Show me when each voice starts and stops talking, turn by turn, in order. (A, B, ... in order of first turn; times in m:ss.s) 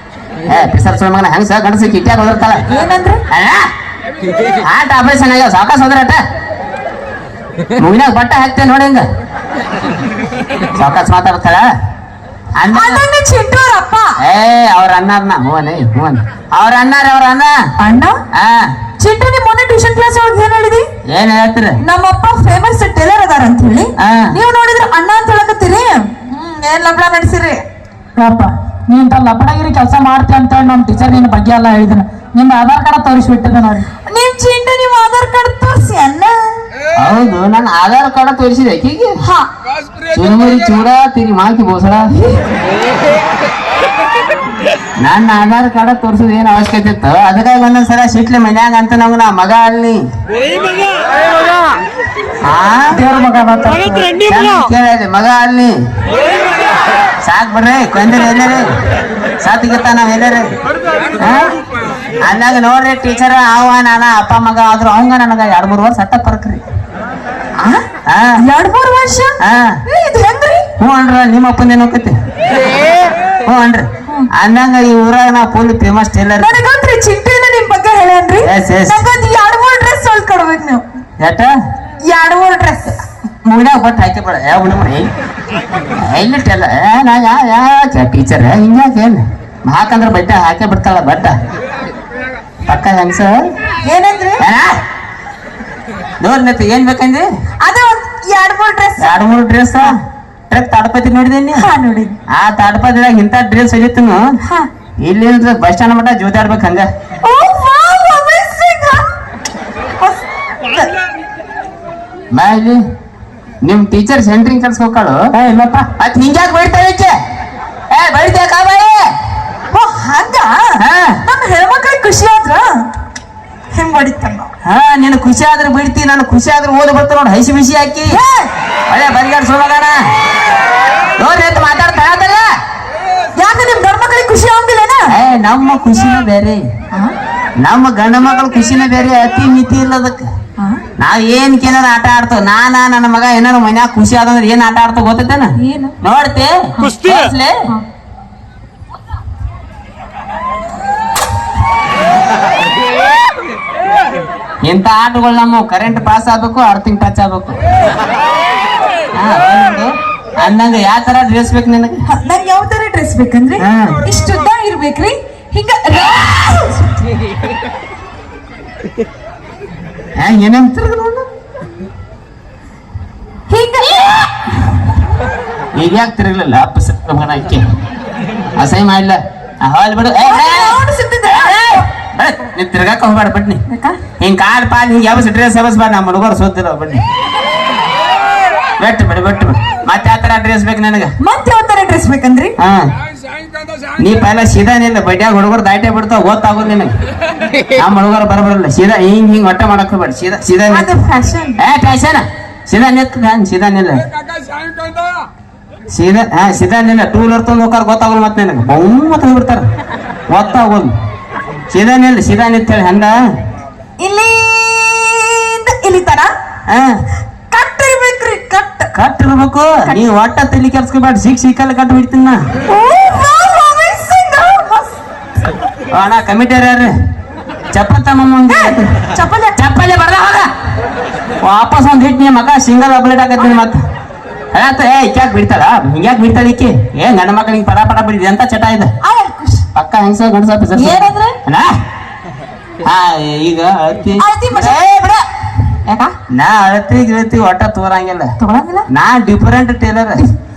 0:00.4-0:02.6 A
0:02.7-0:03.2 B
0:03.3-0:03.6 A
0:04.6-0:06.2 A
0:07.8-0:09.0 A
0:10.8-0:11.6 A
0:12.6-0:13.0 A
0:12.7-0:14.2 B
0:14.2-0:17.5 A
0:17.8-0:18.2 B
0:18.3-0:18.7 A
0:19.0-0:20.9 B
0:21.1-0:21.8 A
0:21.8-0:27.6 B
0:24.0-0:24.4 A
0:28.2-0:33.9 C
0:34.0-0:36.6 B
0:37.0-0:39.2 A
0:39.2-0:39.5 B
0:40.1-0:42.1 A
0:45.0-0:50.0 A
0:52.4-0:53.0 A
0:52.9-0:54.2 C
0:54.2-0:55.7 A
0:57.2-0:58.7 A
0:59.4-1:00.5 A
1:01.2-1:01.5 A
1:02.2-1:06.6 A
1:07.6-1:07.8 B
1:08.1-1:08.4 A
1:08.4-1:10.7 B
1:09.4-1:09.8 A
1:10.8-1:12.1 A
1:13.4-1:16.6 A
1:16.4-1:20.8 B
1:18.4-1:19.0 A
1:21.2-1:21.5 A
1:22.0-1:23.0 B
1:23.4-1:25.1 A
1:26.0-1:31.3 A
1:32.6-1:33.4 A
1:33.8-1:34.4 B
1:34.4-1:34.7 A
1:36.2-1:37.2 A
1:37.6-1:39.2 B
1:39.0-1:40.0 A
1:40.5-1:41.6 A
1:41.6-1:42.2 B
1:42.3-1:44.2 A
1:45.0-1:46.9 A
1:47.2-1:49.1 B
1:50.0-1:50.9 B
1:52.3-1:52.8 A
1:53.6-1:55.2 A
1:55.3-1:55.9 C
1:56.0-1:57.1 A
1:57.9-1:59.0 A
1:59.7-2:02.8 B
2:00.8-2:01.2 A
2:03.7-2:04.5 B
2:04.6-2:08.2 A
2:08.1-2:08.5 B
2:08.9-2:10.0 A
2:11.2-2:12.4 A
2:13.4-2:15.1 B
2:15.1-2:16.6 A
2:17.6-2:20.3 A
2:21.0-2:27.6 A
2:25.6-2:26.0 B
2:34.6-2:37.6 A
2:39.2-2:42.0 A
2:42.1-2:47.0 B
2:43.6-2:44.0 A
2:50.2-2:51.2 A
2:53.5-2:54.3 B
2:55.8-2:57.6 A
2:58.6-3:00.8 A
3:00.2-3:01.8 B
3:01.3-3:03.6 A
3:03.7-3:04.0 B
3:04.2-3:07.0 A
3:08.8-3:11.1 A
3:11.2-3:12.5 B
3:14.0-3:16.9 A
3:17.8-3:20.9 A
3:20.7-3:21.6 B
3:21.6-3:24.0 A
3:25.9-3:29.6 A
3:30.3-3:30.9 A
3:31.7-3:33.2 A
3:34.0-3:36.3 B
3:36.7-3:37.0 A
3:37.5-3:38.9 B
3:38.9-3:42.4 A
3:42.7-3:45.0 B
3:45.9-3:46.9 A
3:47.7-3:49.0 A
3:48.5-3:49.6 B
3:49.6-3:50.5 A
3:51.4-3:53.8 A
3:54.5-3:58.9 A
3:59.0-3:59.6 B
3:59.7-4:01.7 A
4:00.7-4:01.4 B
4:02.8-4:04.8 A
4:04.2-4:05.2 B
4:05.9-4:06.1 B
4:06.3-4:08.3 A
4:08.4-4:08.9 B
4:08.9-4:10.2 A